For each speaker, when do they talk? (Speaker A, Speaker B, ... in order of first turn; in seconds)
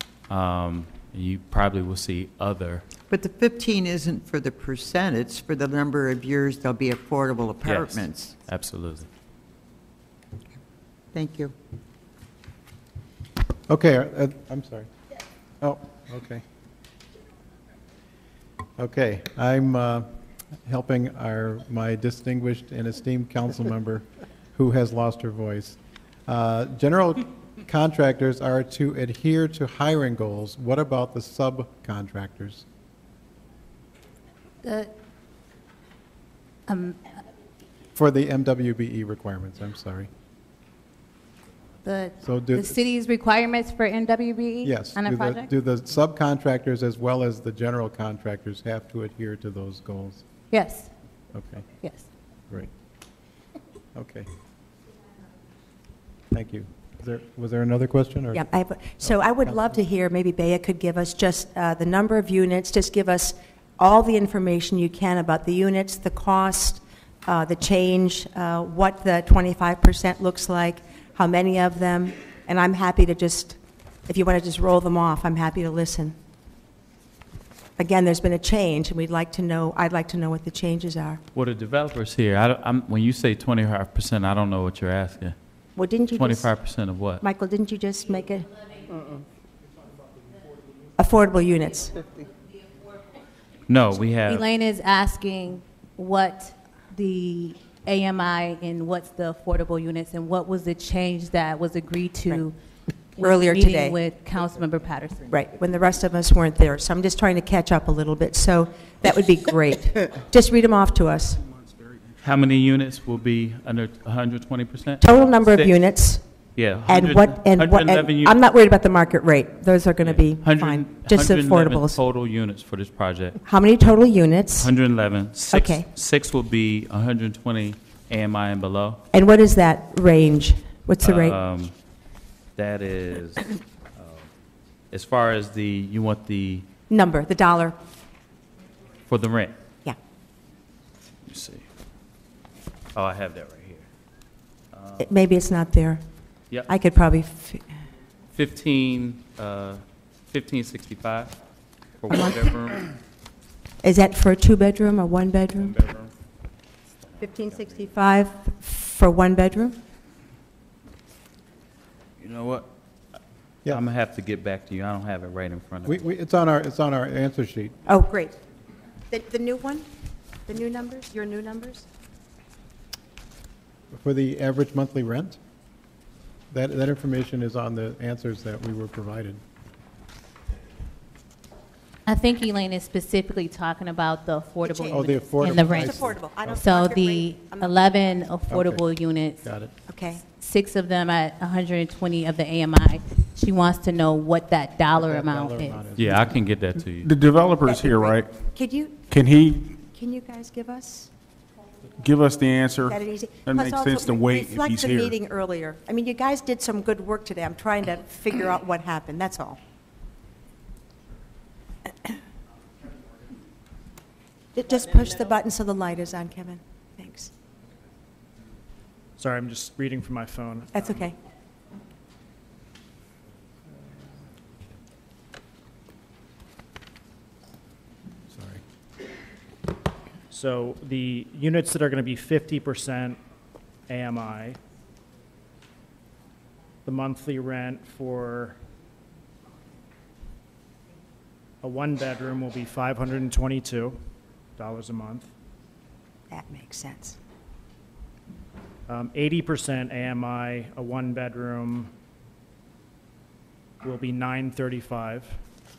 Speaker A: 0.3-2.8, 7.6-9.1, 81.3-85.3, 86.2-87.2, 93.7-94.4, 112.2-115.7, 116.5-118.4, 120.0-123.4, 124.6-129.0, 131.0-131.7, 132.6-134.3, 134.9-136.7, 139.1-139.6, 141.2-141.6, 142.9-143.9, 144.7-145.1, 148.3-151.3, 152.0-152.9, 155.7-156.1, 162.2-162.7, 163.7-166.0, 195.9-197.1
Speaker B: 3.1-8.3, 11.1-11.5
Speaker C: 13.7-14.9, 15.6-16.4, 18.8-20.1, 20.6-32.6, 37.9-40.1, 42.2-42.8, 44.6-50.2, 51.3-51.6, 53.9-54.3, 56.3-58.5, 59.0-59.7, 165.8-167.8, 173.9-175.4, 176.5-179.4, 184.9-186.6, 188.5-188.8, 189.4-189.7, 194.9-196.4, 228.3-228.6
Speaker D: 34.6-34.9, 36.7-37.0, 41.8-45.5, 50.5-50.9, 51.8-52.1, 94.2-102.5, 103.2-105.3, 182.1-189.4, 190.2-195.8
Speaker E: 58.3-76.1, 77.8-81.2, 85.8-86.5, 87.2-88.5, 91.0-92.0, 103.2-104.0, 105.3-111.4, 115.0-116.2, 116.9-122.0, 123.4-124.7, 125.5-125.9, 129.1-131.4, 136.9-137.8, 145.0-146.0, 146.7-147.6, 153.8-155.7, 157.2-159.8, 167.9-168.4, 169.1-169.8, 170.5-171.8, 184.6-187.8, 189.9-190.2, 197.7-199.1, 199.8-201.1, 202.9-209.6, 214.5-217.3, 220.7-221.1, 246.3-247.2
Speaker F: 197.0-198.3, 199.1-199.8, 202.0-205.2
Speaker G: 219.2-221.0, 230.3-233.2, 233.9-234.6, 236.8-238.6, 241.6-244.0, 244.6-245.3, 248.9-251.9, 253.8-255.4